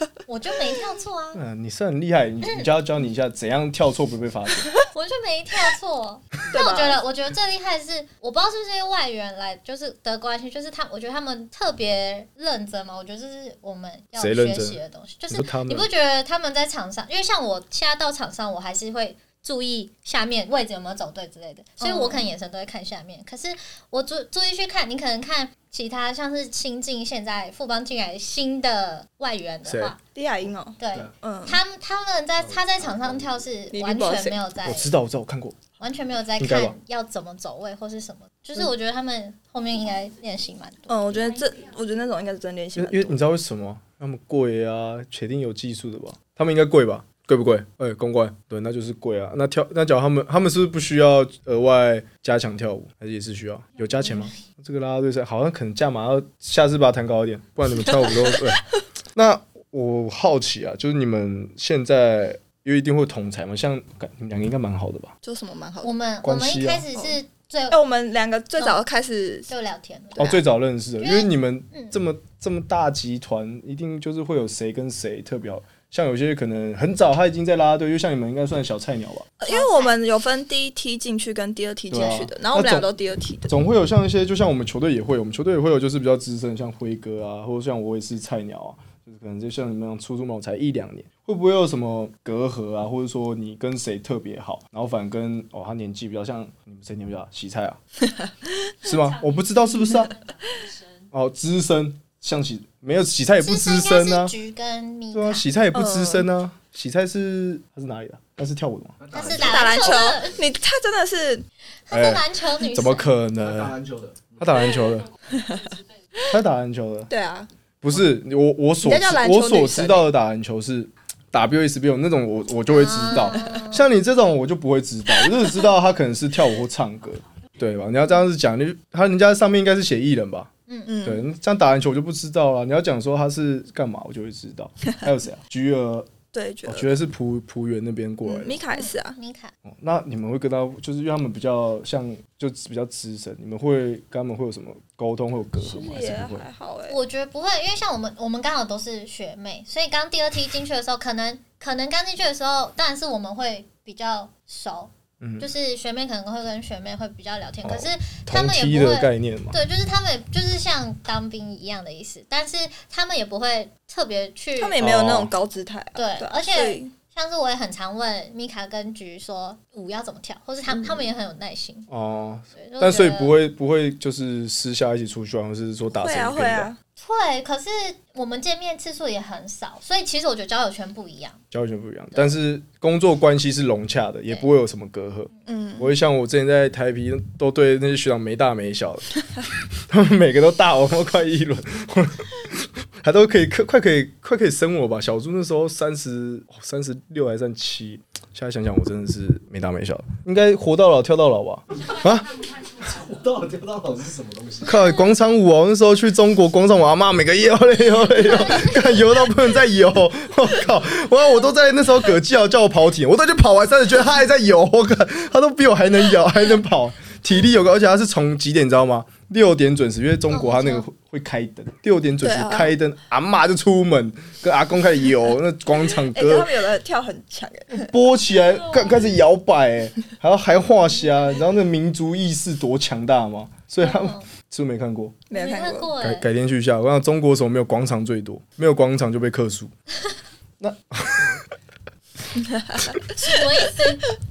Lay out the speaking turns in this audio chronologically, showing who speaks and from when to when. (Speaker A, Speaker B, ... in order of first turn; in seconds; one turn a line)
Speaker A: 0.3-1.4
Speaker B: 1.3-4.7
Speaker A: 4.9-30.0
Speaker C: 6.5-7.0
Speaker B: 14.2-14.8
Speaker B: 15.3-15.9
Speaker C: 21.8-22.3
Speaker B: 29.6-29.9
Speaker C: 30.1-31.6
Speaker A: 30.8-34.9
Speaker C: 33.7-34.4
Speaker B: 34.6-35.6
Speaker A: 35.8-41.4
Speaker B: 36.4-36.8
Speaker C: 40.9-43.2
Speaker B: 42.8-58.6
Speaker B: 59.1-65.1
Speaker C: 65.2-65.9
Speaker A: 65.8-67.8
Speaker B: 66.2-66.9
Speaker C: 67.7-69.5
Speaker A: 69.5-70.4
Speaker B: 70.2-79.3
Speaker A: 71.0-71.9
Speaker C: 79.4-83.6
Speaker A: 79.5-80.0
Speaker B: 81.9-82.9
Speaker B: 83.5-97.8
Speaker B: 98.8-100.1
Speaker B: 101.1-104.3
Speaker A: 103.4-105.5
Speaker B: 105.1-109.0
Speaker C: 105.7-106.3
Speaker D: 109.0-110.2
Speaker A: 109.1-110.4
Speaker C: 109.4-111.5
Speaker A: 111.9-113.1
Speaker B: 111.9-113.8
Speaker D: 113.4-114.7
Speaker B: 114.4-115.1
Speaker C: 115.3-116.3
Speaker B: 116.3-117.1
Speaker C: 117.1-117.5
Speaker B: 117.8-130.5
Speaker C: 118.8-120.1
Speaker A: 122.7-123.8
Speaker A: 130.7-131.0
Speaker C: 130.9-131.2
Speaker B: 131.0-136.1
Speaker C: 136.3-137.0
Speaker B: 136.7-138.6
Speaker C: 138.2-139.2
Speaker A: 138.7-139.5
Speaker B: 139.7-146.4
Speaker C: 145.6-147.0
Speaker A: 146.9-164.8
Speaker B: 155.2-155.5
Speaker B: 157.6-159.6
Speaker C: 164.6-166.9
Speaker B: 164.8-165.3
Speaker A: 166.0-171.9
Speaker C: 170.7-171.0
Speaker B: 171.9-176.7
Speaker A: 172.6-173.3
Speaker C: 175.9-176.8
Speaker A: 177.0-181.4
Speaker B: 181.5-189.1
Speaker C: 185.5-185.9
Speaker B: 189.9-202.3
Speaker D: 202.8-204.7
Speaker B: 204.7-226.5
Speaker A: 204.7-205.1
Speaker A: 208.1-209.1
Speaker A: 220.3-220.8
Speaker C: 222.2-222.7
Speaker C: 226.1-227.9
Speaker B: 227.7-235.2
Speaker A: 233.8-234.3
Speaker C: 235.3-235.9
Speaker A: 235.3-236.2
Speaker B: 236.0-239.7
Speaker B: 240.6-241.4
Speaker C: 242.3-243.0
Speaker A: 243.1-244.1